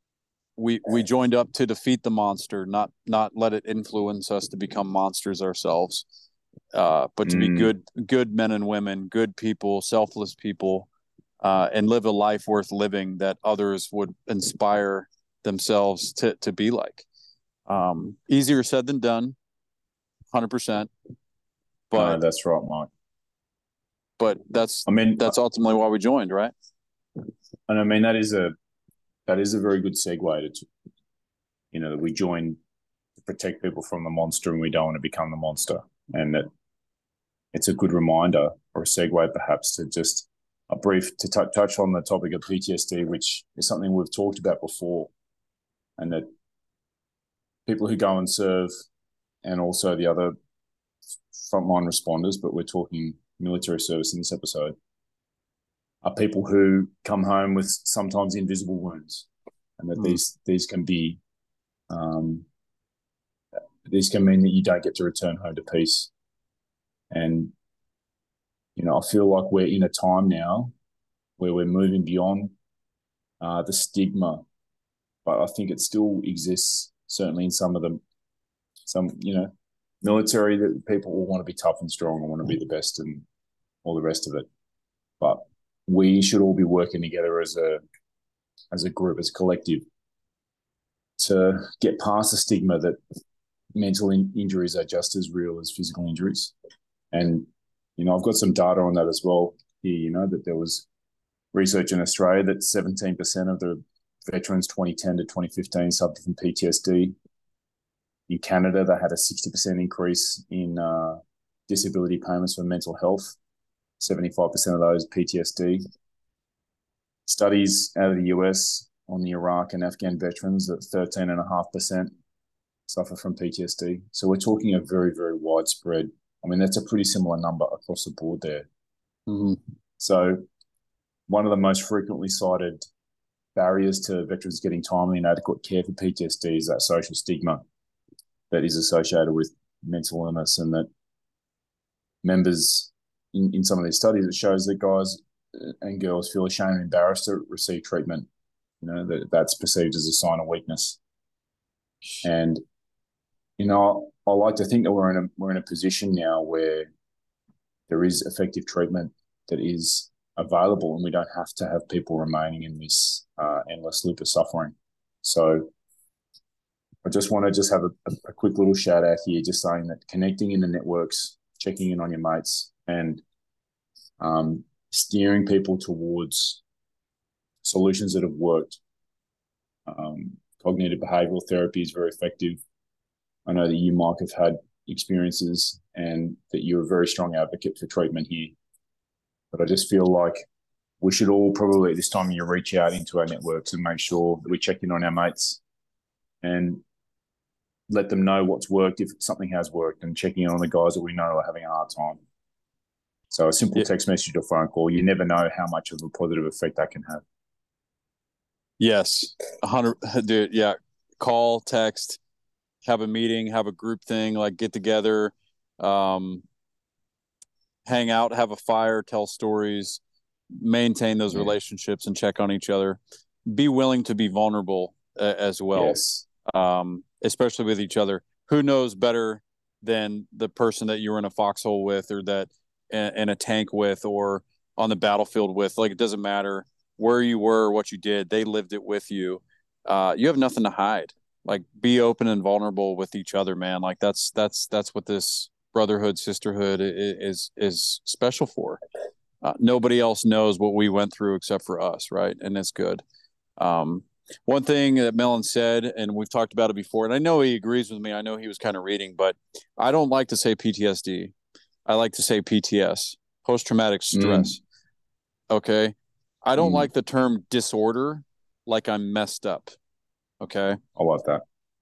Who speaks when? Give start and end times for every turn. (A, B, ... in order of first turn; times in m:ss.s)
0:00.6-0:06.0 A
0:06.7-0:10.9 A
0:07.2-0:07.7 B
0:11.4-0:17.0 A
0:17.7-0:19.4 A
0:20.3-0:20.9 A
0:21.9-0:22.2 A
0:22.0-0:22.9 B
0:24.2-0:26.5 A
0:24.9-0:25.3 B
0:27.7-0:28.5 B
0:29.3-0:30.7 B
0:31.7-0:32.6 B
0:33.2-0:36.5 B
0:37.5-0:45.1 B
0:46.0-0:46.3 B
0:47.7-0:48.7 B
0:49.4-0:50.4 B
0:51.3-0:54.7 B
0:56.0-0:59.3 B
0:59.8-1:01.2 B
1:01.9-1:02.4 B
1:03.9-1:06.1 B
1:07.1-1:07.5 B
1:08.8-1:10.7 B
1:11.4-1:12.5 B
1:13.4-1:14.4 B
1:15.2-1:18.0 B
1:18.9-1:23.3 B
1:23.8-1:24.5 B
1:25.2-1:27.8 B
1:28.7-1:29.8 B
1:31.2-1:33.0 B
1:33.7-1:36.5 B
1:37.1-1:40.9 B
1:41.5-1:47.1 B
1:48.3-1:53.4 B
1:54.0-1:55.8 B
1:57.3-2:02.1 B
2:02.9-2:08.7 B
2:09.3-2:09.6 A
2:10.0-2:10.4 B
2:11.3-2:12.8 B
2:13.6-2:17.6 B
2:18.5-2:20.9 B
2:22.2-2:28.3 B
2:28.8-2:31.0 B
2:32.2-2:32.6 B
2:33.6-2:36.9 B
2:37.9-2:45.7 B
2:47.0-2:53.2 B
2:54.2-2:56.6 B
2:57.6-2:58.8 B
2:59.9-3:02.6 B
3:03.4-3:08.6 B
3:09.5-3:10.4 B
3:11.0-3:15.6 B
3:16.4-3:16.8 B
3:17.9-3:22.2 B
3:23.3-3:27.2 B
3:28.8-3:32.2 A
3:32.8-3:36.4 A
3:37.9-3:40.0 A
3:40.6-4:08.8 A
3:45.7-3:46.3 B
4:09.4-4:13.0 A
4:13.6-4:21.3 A
4:21.9-4:24.6 A
4:24.1-4:24.6 B
4:25.5-4:29.7 A
4:26.6-4:26.9 B
4:30.4-4:30.8 A
4:31.0-4:31.4 B